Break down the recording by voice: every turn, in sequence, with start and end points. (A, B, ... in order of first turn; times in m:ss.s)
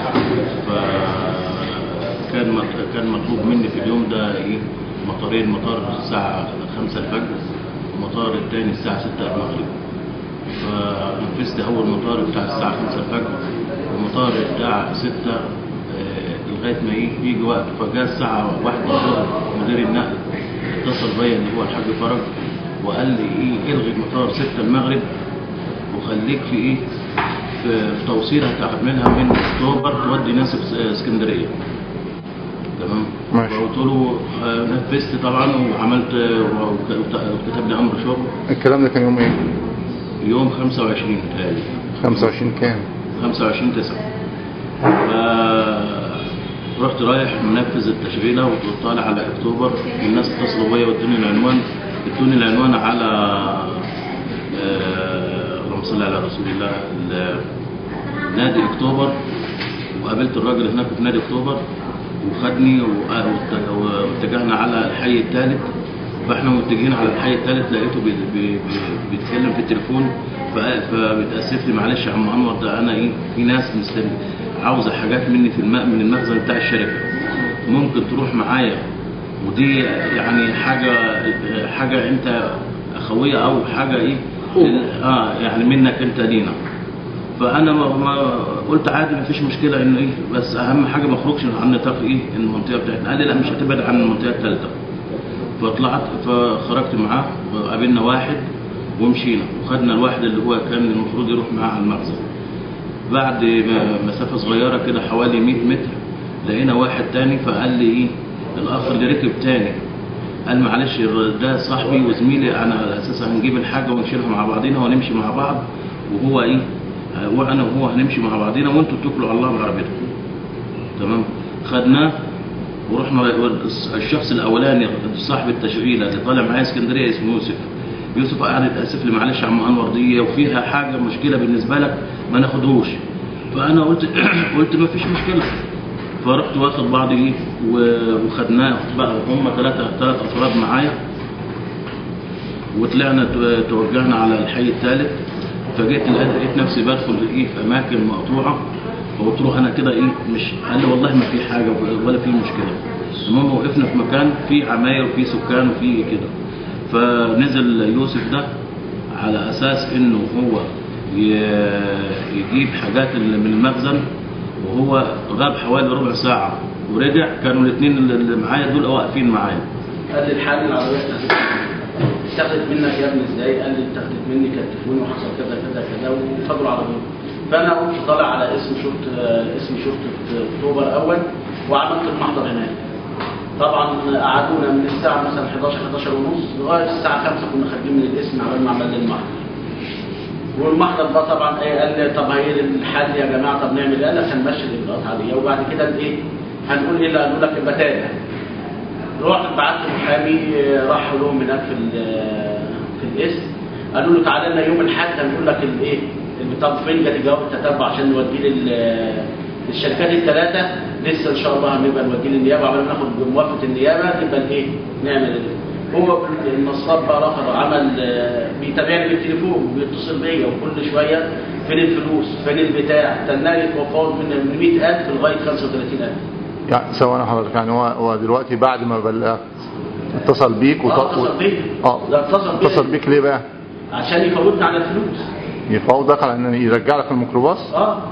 0:00.5-0:07.4 A
0:07.9-0:09.7 A
0:10.6-0:20.2 A
0:20.8-0:22.2 A
0:22.8-0:25.0 A
0:25.9-0:26.8 A
0:27.6-0:31.5 A
0:32.8-0:38.3 A
0:33.3-0:33.6 B
0:38.5-0:39.4 B
0:40.2-0:42.3 A
0:42.0-0:42.8 B
0:43.2-0:44.0 A
0:45.0-0:46.2 A
0:46.8-0:53.8 A
0:54.5-0:57.4 A
0:58.3-0:59.2 A
1:00.0-1:01.6 A
1:02.2-1:05.7 A
1:06.2-1:17.1 A
1:17.6-1:18.8 A
1:19.4-1:26.6 A
1:27.4-1:34.7 A
1:35.6-1:38.4 A
1:39.0-1:42.2 A
1:43.1-1:49.8 A
1:50.5-1:56.6 A
1:57.2-2:00.0 A
2:01.0-2:02.2 A
2:02.9-2:13.0 A
2:13.5-2:15.5 A
2:16.2-2:21.0 A
2:22.8-2:25.2 A
2:25.7-2:28.6 A
2:29.2-2:36.3 A
2:36.9-2:38.5 A
2:39.2-2:44.0 A
2:44.6-2:49.6 A
2:50.1-2:51.7 C
2:52.3-3:02.8 C
3:03.6-3:09.3 C
3:10.6-3:16.2 C
3:16.7-3:18.1 C
3:19.2-3:46.2 C
3:46.7-3:49.4 B
3:50.1-3:51.3 B
3:50.9-3:52.9 C
3:52.6-3:53.4 B
3:53.9-3:55.2 C
3:55.7-3:57.7 B
3:57.7-3:58.0 C